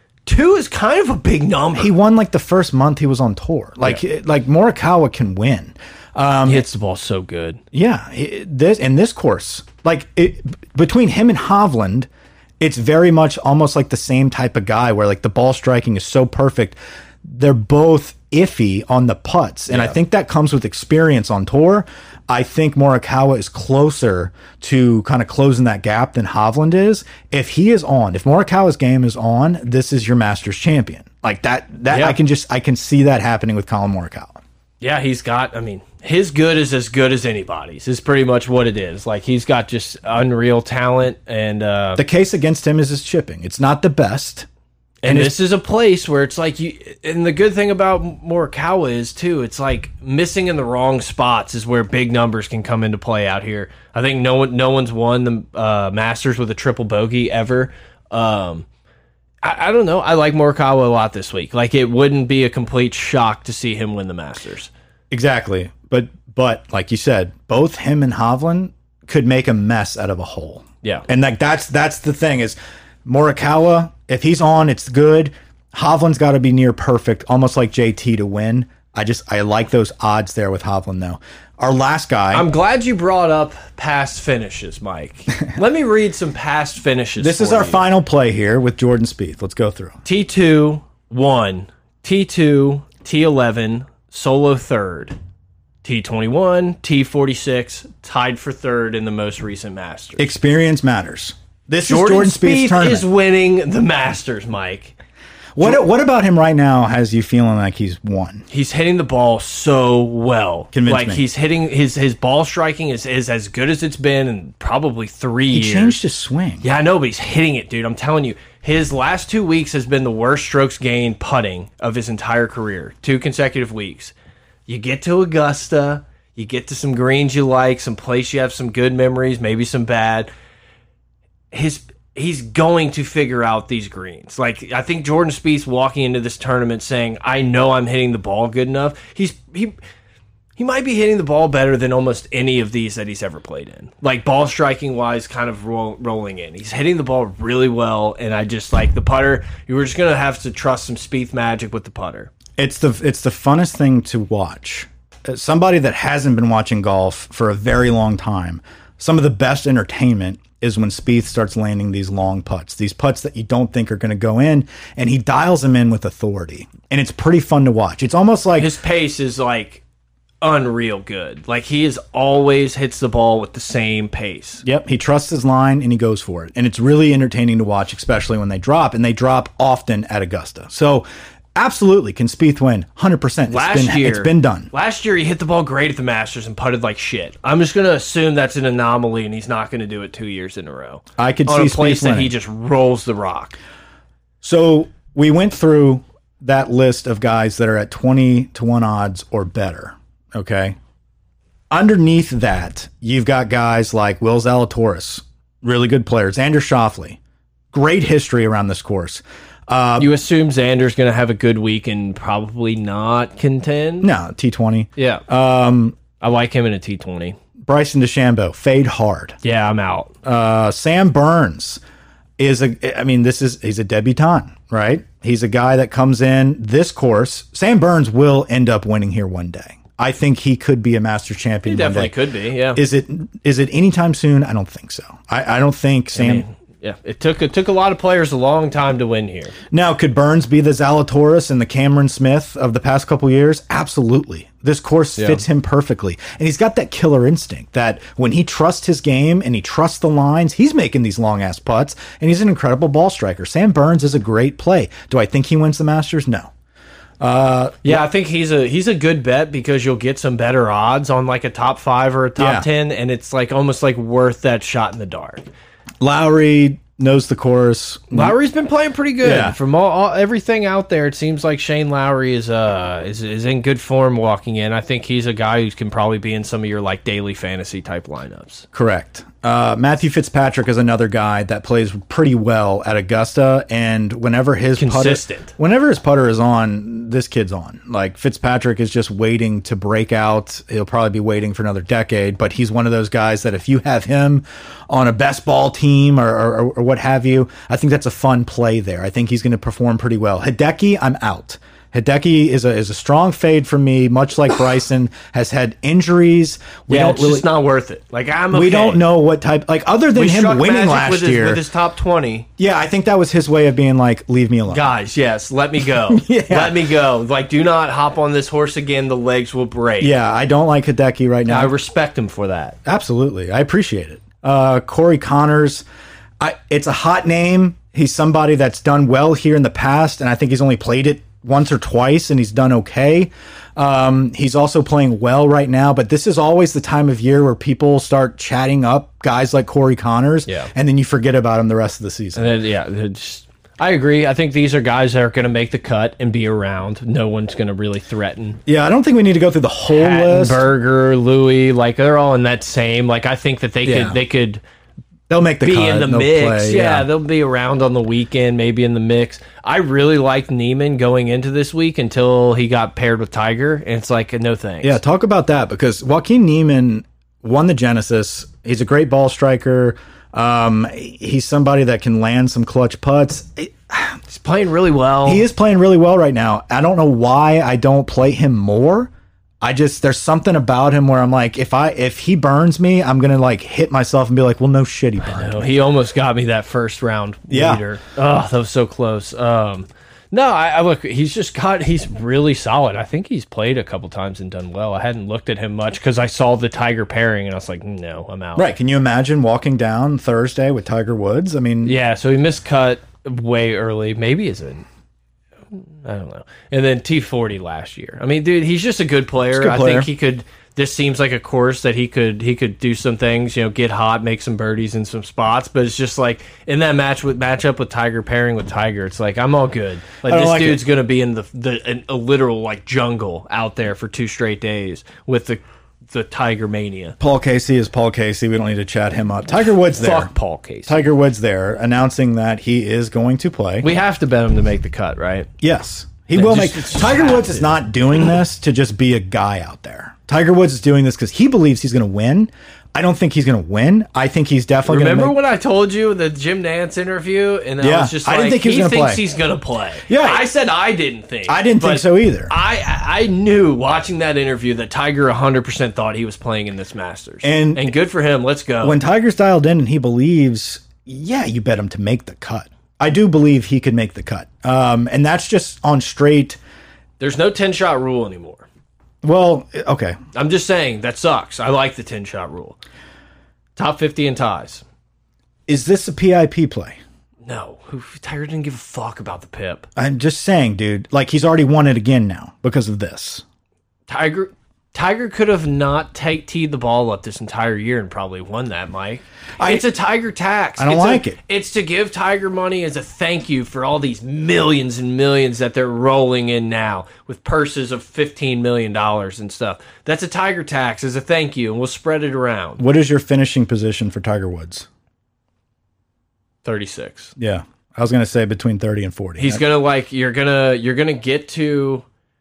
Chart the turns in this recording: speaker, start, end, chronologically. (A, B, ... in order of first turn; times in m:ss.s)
0:00.2-0:01.9 A
0:01.7-0:06.6 B
0:06.4-0:07.6 A
0:07.7-0:12.1 B
0:12.6-0:34.4 B
0:31.9-0:32.2 A
0:34.8-0:42.0 A
0:42.0-0:44.5 B
0:45.0-0:58.6 A
0:45.0-0:45.3 B
0:59.4-1:04.7 A
1:05.1-1:22.5 B
1:22.3-1:27.8 A
1:27.2-1:30.0 B
1:30.0-1:35.2 A
1:35.8-1:40.3 A
1:40.2-1:43.0 B
1:41.8-1:45.0 A
1:45.5-1:48.4 B
1:48.5-1:56.0 A
1:50.7-1:51.2 B
1:55.5-1:56.6 B
1:56.6-2:04.1 A
2:04.7-2:10.3 A
2:11.5-2:19.8 A
2:20.6-2:32.3 A
2:32.6-2:48.7 B
2:48.6-2:49.8 A
2:50.4-2:54.6 A
2:54.6-3:04.7 B
3:03.5-3:13.6 A
3:11.2-3:12.3 B
3:14.4-3:20.7 B
3:21.7-3:27.2 B
3:27.7-3:30.1 B
3:30.0-3:34.1 A
3:34.0-3:36.0 B
3:35.0-3:35.2 A
3:36.2-3:37.4 A
3:37.6-3:39.4 B
3:39.4-3:40.1 A
3:40.2-3:41.8 B
3:42.4-3:52.1 B
3:51.6-3:52.8 A
3:52.7-3:56.4 B
3:56.1-3:59.5 A
3:59.7-4:16.5 B
4:05.2-4:05.4 A
4:17.2-4:18.0 B
4:17.8-4:25.5 A
4:22.4-4:22.7 B
4:26.0-4:28.3 B
4:28.1-4:38.6 A
4:29.2-4:29.6 B
4:38.7-5:07.5 B
4:44.8-4:45.5 A
5:06.9-5:09.0 A
5:08.5-5:11.6 B
5:10.1-5:12.5 A
5:12.6-5:14.9 B
5:14.7-5:20.1 A
5:16.1-5:16.9 B
5:20.0-5:21.7 B
5:21.5-5:22.8 A
5:22.8-5:25.8 B
5:26.4-5:42.5 B
5:42.3-5:48.6 A
5:48.6-5:50.6 B
5:49.9-5:54.6 A
5:53.8-5:54.2 B
5:55.3-5:57.1 B
5:55.6-6:05.0 A
6:04.8-6:14.2 B
6:14.3-6:15.4 A
6:15.2-6:25.7 B
6:25.2-6:38.7 A
6:27.5-6:27.8 B
6:38.6-6:42.0 B
6:41.8-6:44.8 A
6:45.7-7:07.2 A
6:49.5-6:50.1 B
7:00.2-7:00.8 B
7:07.2-7:10.3 B
7:10.0-7:11.0 A
7:10.9-7:13.9 B
7:13.8-7:15.5 A
7:15.6-7:25.3 B
7:16.3-7:17.8 A
7:24.8-7:39.0 A
7:27.8-7:29.2 B
7:30.1-7:30.5 B
7:31.5-7:32.5 B
7:37.4-7:37.9 B
7:38.8-7:46.6 B
7:47.2-7:48.6 A
7:49.2-7:50.2 B
7:50.3-7:52.8 A
7:53.8-7:54.8 A
7:55.7-7:57.0 B
7:57.4-7:59.9 A
8:00.0-8:03.4 B
8:04.1-8:22.8 A
8:09.6-8:09.9 B
8:10.8-8:11.4 B
8:22.8-8:24.9 B
8:26.6-8:27.3 A
8:27.4-8:29.6 B
8:29.4-8:32.0 A